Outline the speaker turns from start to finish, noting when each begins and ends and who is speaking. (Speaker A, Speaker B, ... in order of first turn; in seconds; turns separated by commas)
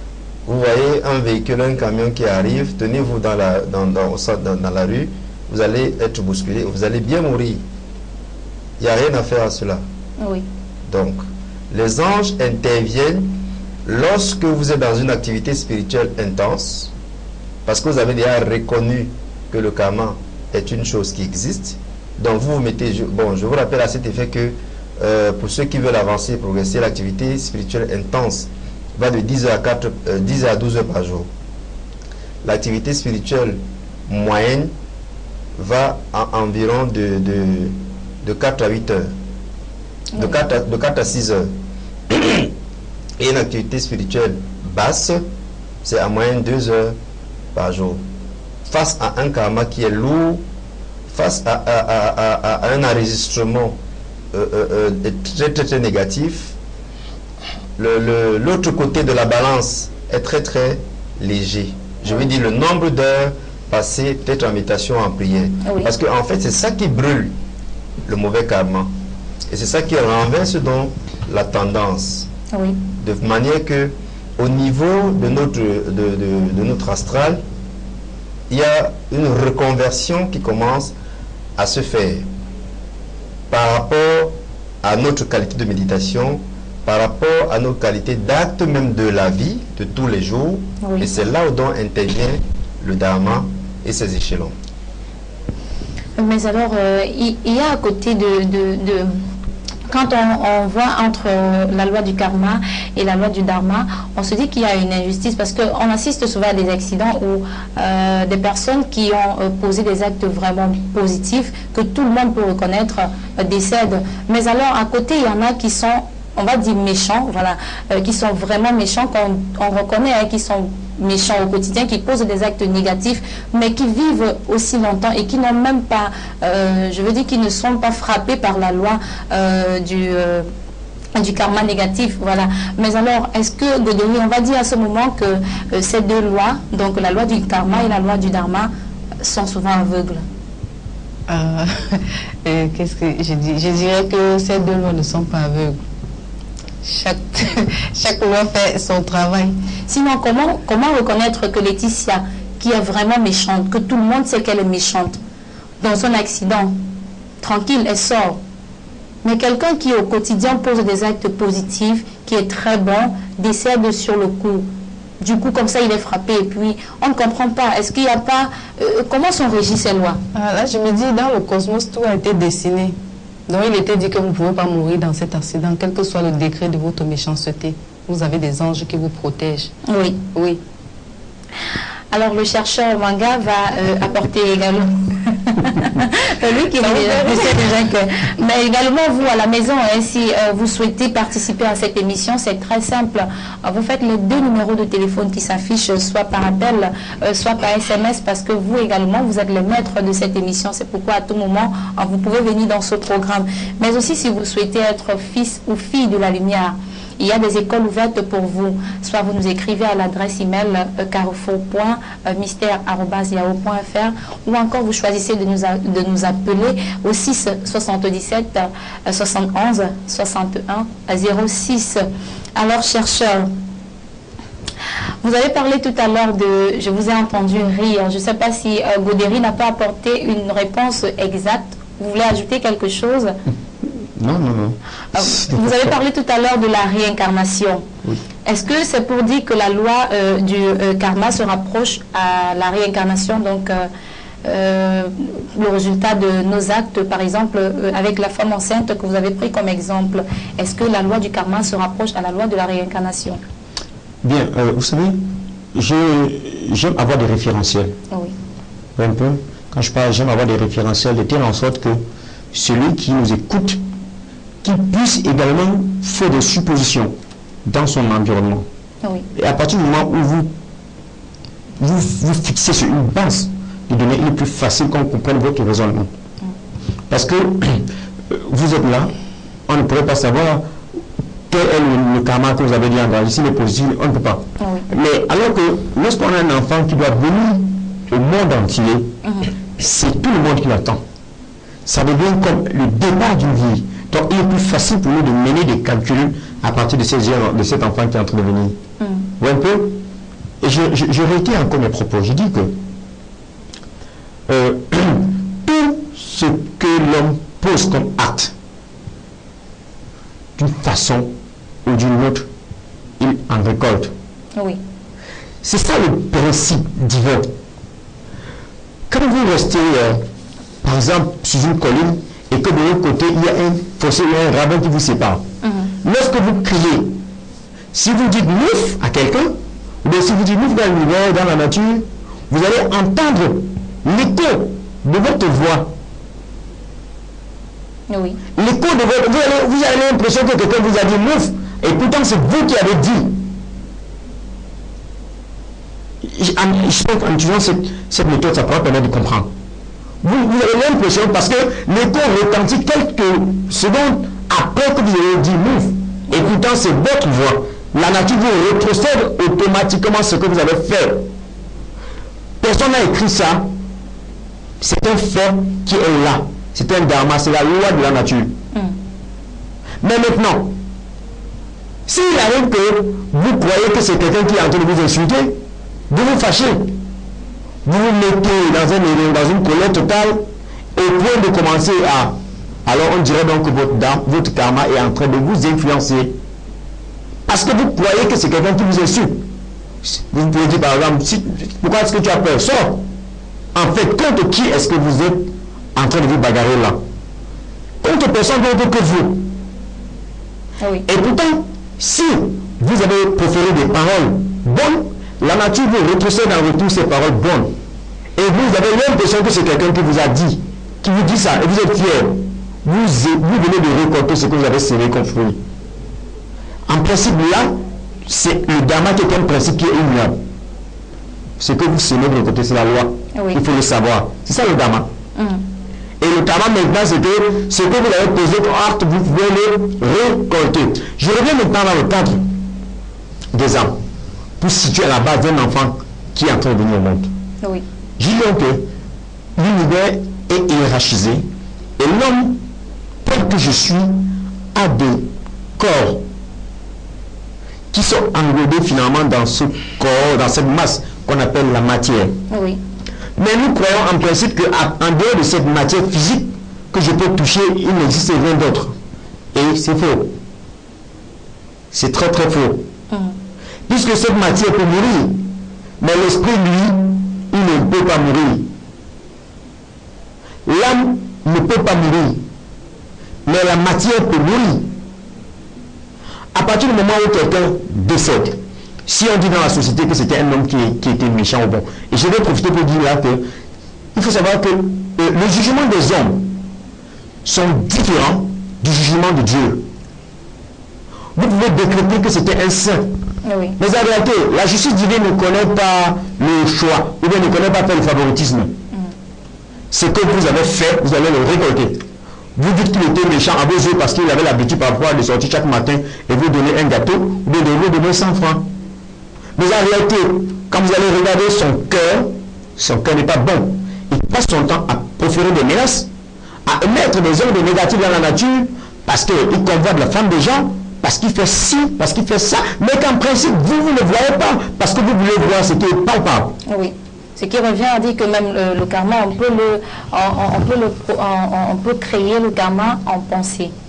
Speaker A: 0.5-7.6, Speaker A: 8.8-9.8, Speaker B: 10.2-10.4, Speaker A: 10.9-13.3, Speaker A: 13.9-16.9, Speaker A: 17.6-31.3, Speaker A: 32.4-34.7, Speaker A: 35.6-39.1, Speaker B: 40.1-40.4, Speaker A: 40.2-41.5, Speaker A: 42.1-42.5, Speaker A: 43.2-45.2, Speaker A: 45.8-47.0, Speaker A: 47.5-48.0, Speaker A: 48.7-50.4, Speaker A: 51.1-53.8, Speaker A: 54.3-56.6, Speaker A: 57.8-67.3, Speaker B: 65.6-65.9, Speaker A: 68.1-68.9, Speaker A: 69.5-72.3, Speaker B: 72.5-72.8, Speaker A: 73.0-77.4, Speaker A: 78.5-80.9, Speaker A: 81.6-82.3, Speaker A: 83.5-94.5, Speaker B: 90.8-91.1, Speaker B: 96.2-99.1, Speaker B: 99.9-130.5, Speaker B: 131.2-138.7, Speaker B: 139.2-140.2, Speaker C: 141.3-145.8, Speaker C: 146.8-149.6, Speaker B: 149.9-155.2, Speaker B: 155.8-156.8, Speaker B: 157.4-158.4, Speaker B: 159.2-164.7, Speaker B: 165.2-170.2, Speaker C: 170.3-173.0, Speaker C: 173.5-179.7, Speaker B: 179.9-180.2, Speaker C: 180.3-180.6, Speaker B: 182.1-222.0, Speaker C: 186.8-187.7, Speaker B: 222.6-223.5, Speaker B: 225.2-233.4, Speaker D: 233.8-236.0, Speaker B: 235.2-237.9, Speaker B: 238.5-243.9, Speaker B: 244.4-253.4, Speaker D: 254.2-258.0, Speaker D: 259.0-263.8, Speaker D: 264.6-268.7, Speaker D: 269.3-270.5, Speaker D: 271.8-276.1, Speaker D: 277.1-279.1, Speaker D: 279.7-280.7, Speaker D: 281.5-289.2, Speaker B: 284.6-284.9, Speaker B: 289.2-289.5, Speaker D: 289.8-291.0, Speaker D: 291.9-298.8, Speaker B: 299.0-299.3, Speaker D: 299.4-300.1, Speaker D: 300.6-302.8, Speaker D: 304.5-308.5, Speaker D: 310.6-311.3, Speaker D: 311.9-312.5, Speaker D: 313.2-314.1, Speaker D: 315.6-317.6, Speaker D: 319.1-320.2, Speaker D: 320.8-325.4, Speaker B: 325.6-325.9, Speaker D: 326.0-327.2, Speaker D: 327.9-335.9, Speaker B: 338.1-338.4, Speaker D: 338.6-343.4, Speaker D: 346.2-349.5, Speaker D: 350.2-361.3, Speaker D: 362.6-363.7, Speaker D: 364.8-368.6, Speaker D: 370.0-370.8, Speaker D: 372.1-377.0, Speaker D: 377.9-386.4, Speaker D: 387.5-389.5, Speaker D: 390.0-393.1, Speaker D: 393.7-397.0, Speaker D: 398.0-399.5, Speaker B: 400.8-401.1, Speaker D: 401.1-407.8, Speaker D: 408.4-415.6, Speaker D: 416.9-420.4, Speaker D: 421.6-425.1, Speaker B: 423.3-423.6, Speaker B: 425.4-425.6, Speaker D: 426.2-432.5, Speaker D: 433.5-434.0, Speaker D: 434.6-437.3, Speaker D: 438.2-438.9, Speaker D: 439.6-442.6, Speaker D: 443.2-446.2, Speaker D: 447.9-452.4, Speaker B: 452.5-452.8, Speaker D: 453.4-459.0, Speaker D: 459.5-460.4, Speaker D: 461.9-462.9, Speaker B: 463.1-463.4, Speaker D: 463.9-468.7, Speaker D: 470.6-472.4, Speaker D: 473.5-474.9, Speaker D: 476.5-483.5, Speaker D: 484.1-486.6, Speaker D: 487.4-489.9, Speaker D: 491.4-493.2, Speaker B: 493.4-493.8, Speaker D: 493.8-498.7, Speaker D: 499.9-502.0, Speaker D: 502.6-508.7, Speaker D: 509.6-516.1, Speaker D: 516.6-526.6, Speaker B: 526.7-533.7